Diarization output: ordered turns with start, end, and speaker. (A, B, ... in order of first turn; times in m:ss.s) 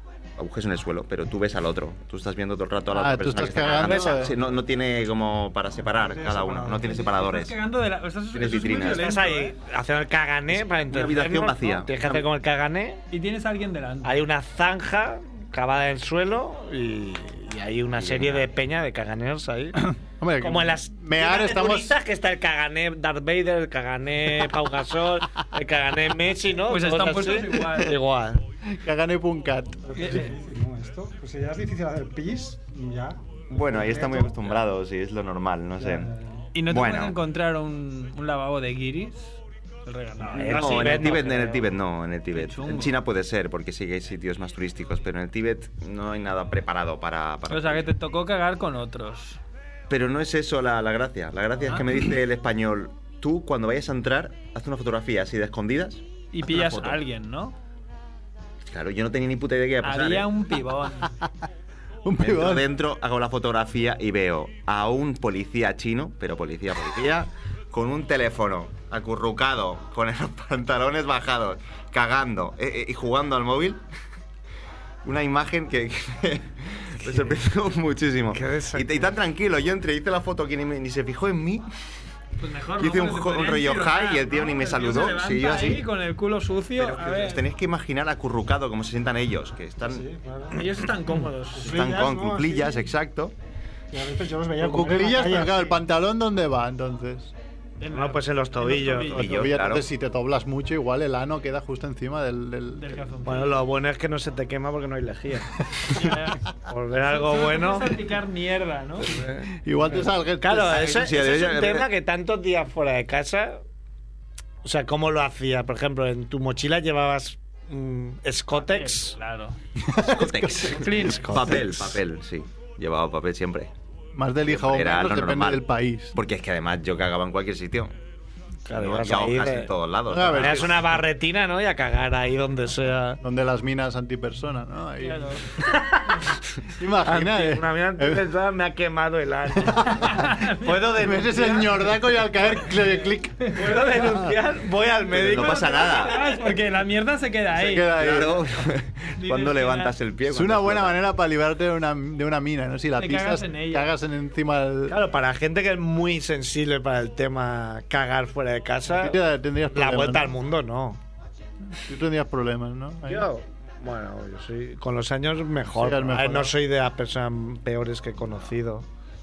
0:00.4-0:07.6 A
0:02.9-0:04.4 B
0:03.6-0:04.3 C
0:06.0-0:07.1 D
0:06.9-0:09.6 E
0:08.3-0:09.2 A
0:08.8-0:13.0 C
0:10.6-0:12.3 A
0:13.1-0:14.2 E
0:14.0-0:19.8 C
0:18.0-0:18.4 A
0:19.8-0:22.0 B
0:20.4-0:28.4 C
0:26.7-0:28.0 E
0:28.7-0:30.2 B
0:29.9-0:34.5 D
0:30.0-0:30.4 E
0:33.5-0:36.1 A
0:35.8-0:36.5 D
0:36.5-0:41.6 E
0:36.7-0:37.2 A
0:40.3-0:47.9 A
0:40.3-0:41.6 C
0:42.3-0:43.0 E
0:47.5-0:49.4 E
0:49.9-0:57.0 A
0:56.3-0:57.6 E
0:58.7-1:00.3 A
0:59.8-1:01.1 E
1:02.0-1:02.7 B
1:02.2-1:13.8 A
1:15.0-1:21.7 A
1:18.3-1:19.1 C
1:22.4-1:27.4 E
1:22.8-1:25.9 A
1:26.8-1:30.0 A
1:29.8-1:30.7 D
1:30.5-1:31.9 E
1:31.6-1:32.9 D
1:31.6-1:33.3 A
1:33.9-1:35.8 D
1:34.6-1:37.3 B
1:37.8-1:39.4 E
1:37.9-1:39.4 C
1:39.1-1:39.9 A
1:39.1-1:43.0 B
1:42.7-1:43.6 E
1:43.2-1:45.5 C
1:45.9-1:46.5 E
1:46.7-1:48.0 C
1:47.0-1:49.1 E
1:49.0-1:49.5 C
1:49.6-1:50.8 B
1:50.4-1:53.6 C
1:50.6-1:51.9 A
1:54.6-1:59.2 C
1:58.5-1:59.6 E
1:59.8-2:01.0 B
2:00.0-2:03.7 A
2:00.8-2:01.6 E
2:00.9-2:01.8 C
2:04.1-2:06.2 B
2:04.4-2:08.0 A
2:08.7-2:09.7 C
2:08.7-2:10.8 A
2:10.1-2:10.8 B
2:10.3-2:13.2 C
2:13.2-2:15.6 B
2:15.0-2:15.4 E
2:15.6-2:16.3 C
2:16.7-2:18.2 B
2:17.0-2:21.9 C
2:19.6-2:24.3 B
2:20.1-2:21.0 E
2:22.7-2:23.1 E
2:23.5-2:26.0 C
2:25.1-2:26.4 A
2:25.2-2:28.1 E
2:27.5-2:28.4 B
2:27.9-2:31.0 A
2:29.2-2:30.0 E
2:30.3-2:35.0 B
2:33.0-2:33.9 E
2:34.9-2:39.2 C
2:38.9-2:40.4 B
2:39.7-2:41.0 C
2:41.7-2:43.3 B
2:43.1-2:48.8 C
2:45.7-2:46.5 B